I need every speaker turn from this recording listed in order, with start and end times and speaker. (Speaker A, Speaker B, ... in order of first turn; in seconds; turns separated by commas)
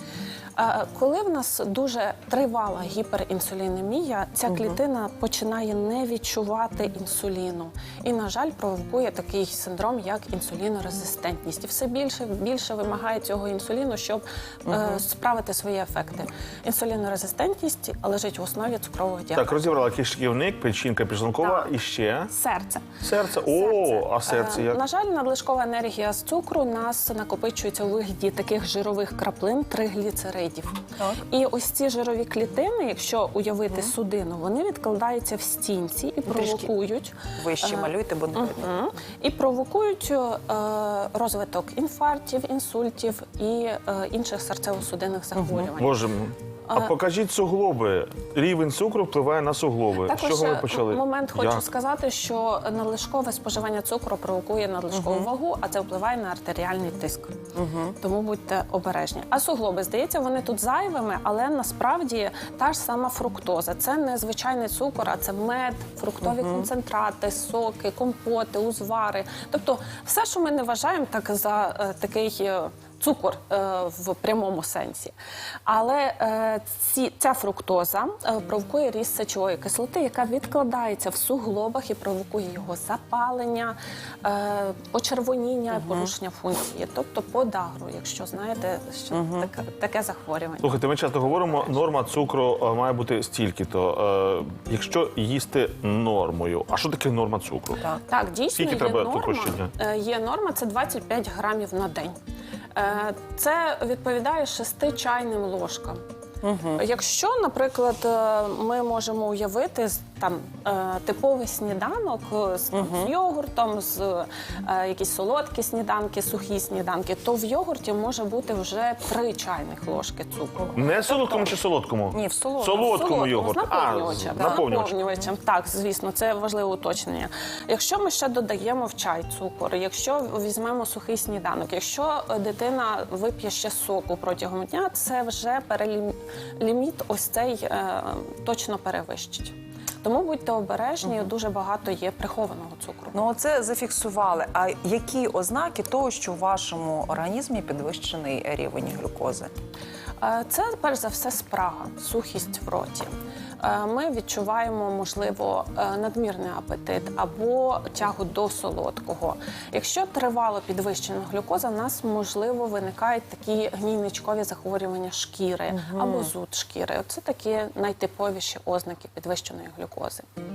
Speaker A: 0.6-19.6, Speaker B: 14.7-15.0, Speaker C: 19.3-22.3, Speaker A: 21.4-21.7, Speaker A: 22.3-46.0, Speaker C: 23.0-24.8, Speaker B: 36.3-36.7, Speaker B: 37.4-38.7, Speaker C: 45.6-51.6, Speaker A: 50.0-57.4, Speaker B: 54.9-55.3, Speaker B: 57.5-58.0, Speaker A: 58.0-75.2, Speaker B: 66.2-66.7, Speaker A: 75.7-91.3, Speaker B: 85.7-86.1, Speaker B: 89.1-89.5, Speaker C: 90.6-97.9, Speaker A: 98.1-102.2, Speaker C: 98.5-99.7, Speaker A: 102.8-106.0, Speaker B: 106.4-106.8, Speaker A: 106.8-121.5, Speaker B: 112.7-113.1, Speaker C: 120.7-125.0, Speaker B: 122.1-122.9, Speaker A: 122.7-143.2, Speaker B: 124.4-124.6, Speaker B: 143.1-149.5, Speaker A: 150.2-170.3, Speaker B: 165.7-166.3